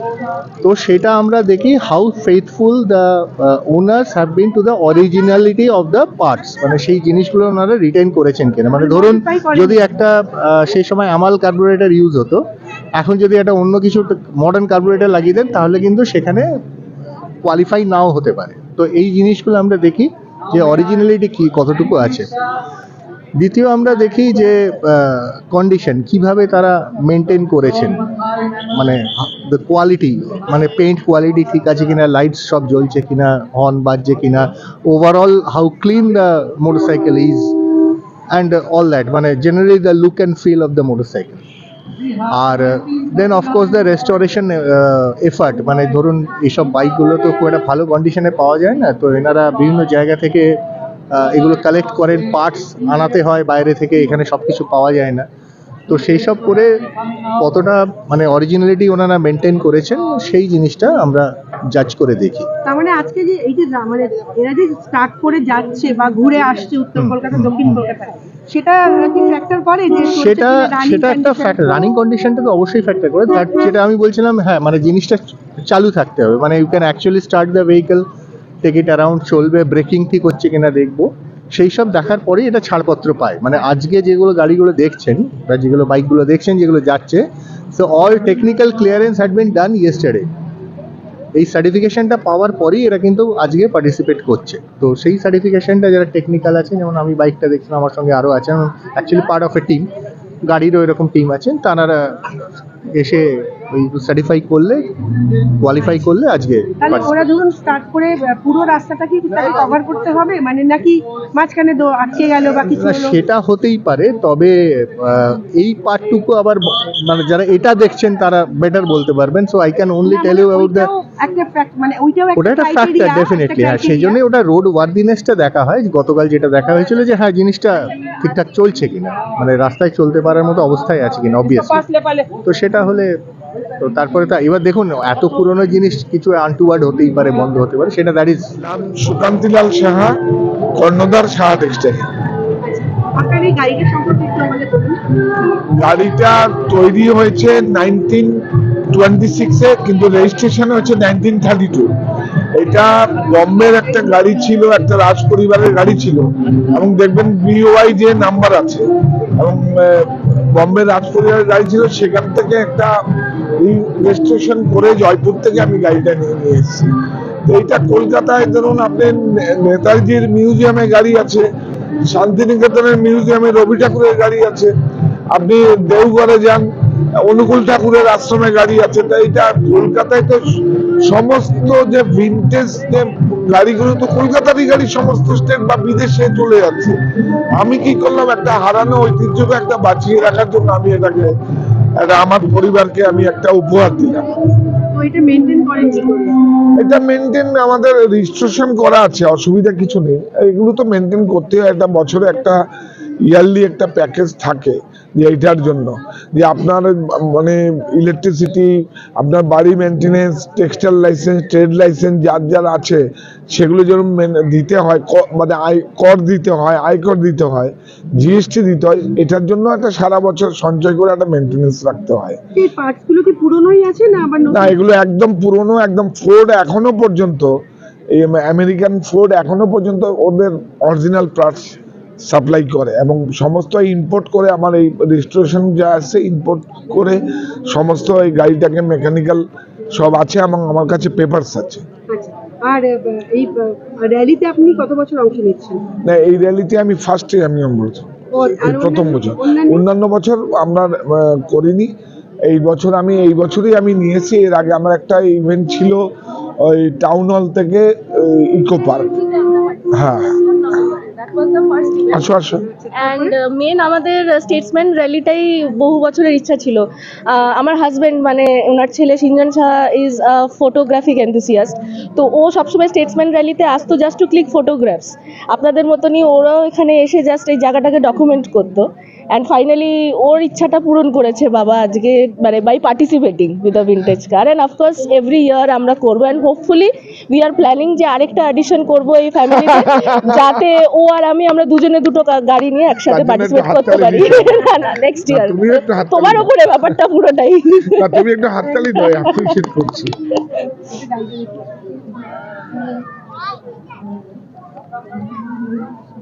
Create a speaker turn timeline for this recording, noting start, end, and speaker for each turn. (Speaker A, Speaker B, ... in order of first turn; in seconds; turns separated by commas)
Speaker A: 0.6-12.4, Speaker B: 8.8-9.8, Speaker A: 13.0-16.5, Speaker A: 17.4-22.3, Speaker A: 23.4-28.0, Speaker A: 28.7-37.5, Speaker A: 38.3-41.4, Speaker A: 42.2-50.6, Speaker A: 51.1-55.3, Speaker A: 55.9-56.7, Speaker A: 57.4-62.5, Speaker B: 62.6-71.8, Speaker A: 67.0-67.8, Speaker A: 70.1-78.0, Speaker A: 78.6-87.2, Speaker A: 87.7-90.3, Speaker A: 91.4-99.9, Speaker A: 100.5-102.4, Speaker A: 103.0-104.9, Speaker A: 105.6-107.1, Speaker B: 106.8-113.1, Speaker A: 112.7-120.9, Speaker B: 120.0-124.2, Speaker A: 122.4-131.8, Speaker B: 131.7-132.2, Speaker A: 132.4-133.1, Speaker A: 133.8-138.5, Speaker C: 138.6-140.1, Speaker C: 140.8-142.0, Speaker B: 142.6-145.0, Speaker C: 145.8-148.3, Speaker C: 148.9-151.9, Speaker C: 152.6-158.8, Speaker C: 159.4-162.9, Speaker C: 163.6-166.9, Speaker C: 167.4-171.4, Speaker C: 172.1-174.7, Speaker C: 175.3-176.6, Speaker C: 177.3-180.4, Speaker C: 181.1-186.9, Speaker C: 187.5-191.3, Speaker C: 192.0-194.2, Speaker B: 194.9-196.3, Speaker C: 196.8-202.6, Speaker C: 203.3-222.4, Speaker B: 222.6-224.7, Speaker C: 224.5-227.5, Speaker C: 228.2-231.8, Speaker C: 232.3-237.2, Speaker C: 237.7-239.4, Speaker C: 239.9-241.8, Speaker B: 242.1-245.8, Speaker C: 246.1-251.9, Speaker B: 248.3-249.8, Speaker C: 252.5-256.0, Speaker C: 256.7-259.2, Speaker C: 259.9-260.4, Speaker D: 260.7-262.3, Speaker C: 262.1-262.7, Speaker B: 262.6-263.3, Speaker D: 262.9-298.3, Speaker C: 289.5-290.5, Speaker C: 293.1-294.7, Speaker C: 295.3-296.9, Speaker C: 297.9-300.1, Speaker D: 298.8-299.5, Speaker D: 300.4-300.6, Speaker B: 300.9-301.7